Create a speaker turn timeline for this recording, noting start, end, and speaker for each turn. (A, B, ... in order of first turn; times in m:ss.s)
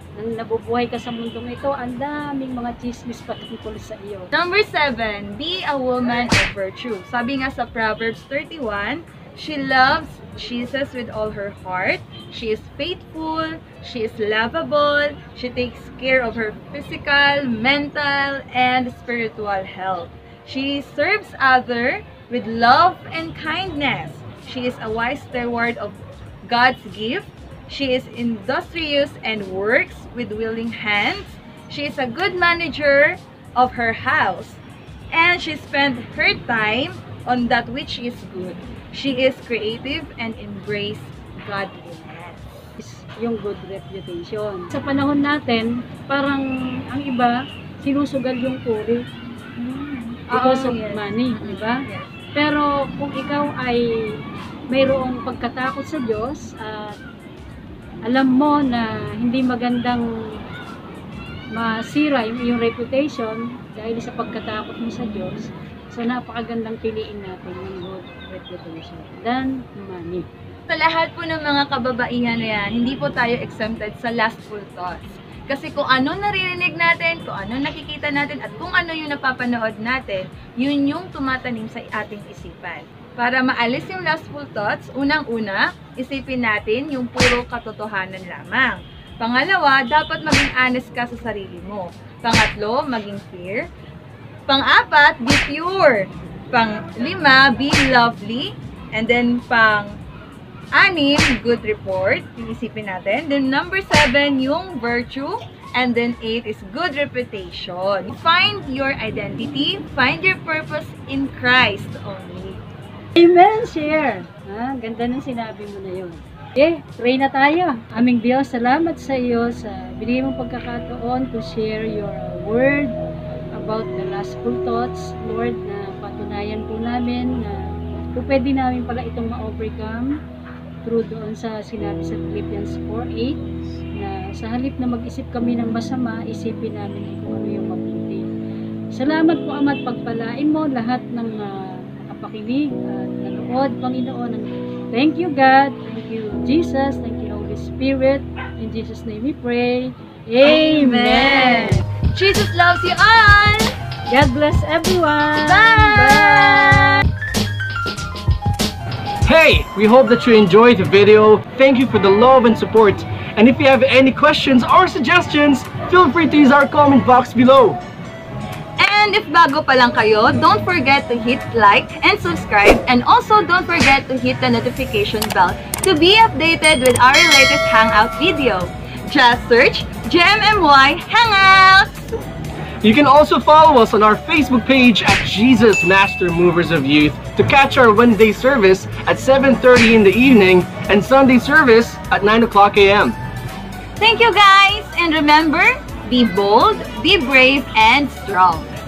0:00.2-0:04.3 A
0:04.3-0:34.6 B
0:35.1-0:42.7 B
0:42.8-0:49.0 A
0:49.6-0:52.1 B
0:50.3-0:51.8 A
0:52.4-0:53.8 A
0:54.7-0:57.0 A
0:58.0-1:00.0 A
1:01.5-1:05.4 A
1:05.9-1:10.3 A
1:10.7-1:33.6 B
1:34.5-1:39.9 B
1:40.7-1:52.6 B
1:53.2-2:03.0 A
2:03.6-2:10.1 A
2:10.8-2:13.4 A
2:14.0-2:18.2 A
2:18.9-2:31.8 A
2:30.4-2:33.7 B
2:34.1-2:37.0 A
2:35.4-2:37.0 B
2:39.2-2:47.8 C
2:48.8-3:02.1 B
3:02.8-3:13.2 C
3:14.0-3:18.7 B